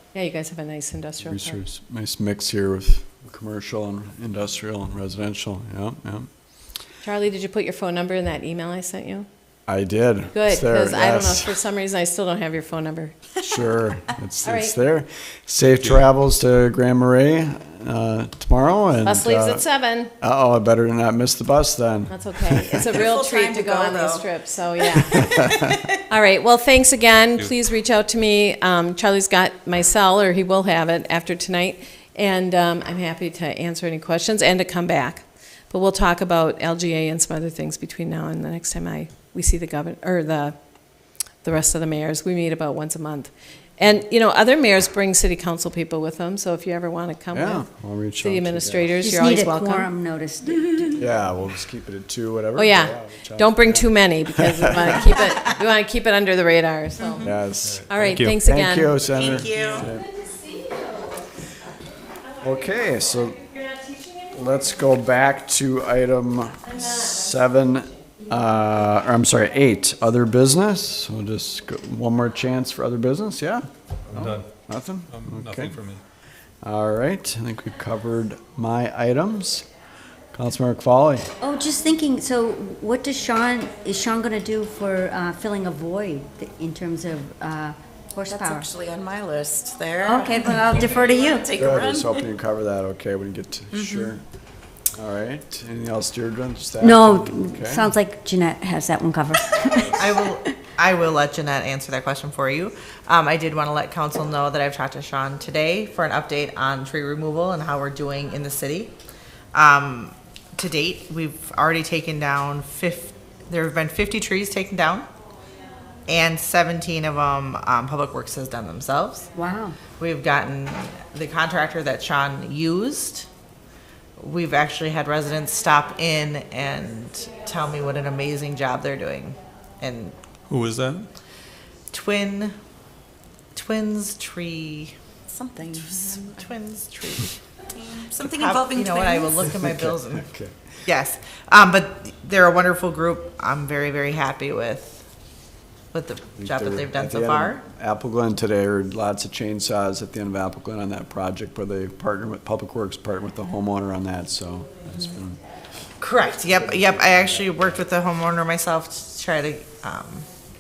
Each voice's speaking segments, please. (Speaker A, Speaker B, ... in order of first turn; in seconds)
Speaker A: 0.1-1.6, 7.0-9.3, 10.3-13.2, 14.4-14.8, 19.0-20.1, 22.1-40.6, 41.4-49.9, 52.6-61.0, 63.5-64.1
Speaker B: 1.2-6.3, 9.7-11.6, 13.4-19.7, 20.2-22.9, 25.1-25.3, 47.3-48.9, 51.0-54.1, 57.2-60.1, 62.4-63.4, 64.3-75.8, 76.6-79.7, 80.3-81.3, 91.6-94.2, 94.9-97.9, 139.4-140.9, 146.4-155.4, 156.8-157.5
Speaker C: 15.7-16.1, 75.1-76.0, 99.8-100.1, 130.5-131.1
Speaker D: 22.8-24.3, 57.0-57.3, 59.1-59.9, 88.2-92.2, 93.7-94.1, 135.3-136.5, 137.7-139.3
Speaker E: 49.0-51.1, 81.4-88.7, 90.0-91.5, 96.8-100.4, 119.4-119.8
Speaker F: 100.0-108.9, 109.5-115.1, 116.1-119.3, 120.0-123.3, 124.2-130.2, 131.9-132.6, 133.6-135.0, 135.7-137.4, 138.1-145.0, 145.9-147.6, 156.0-160.3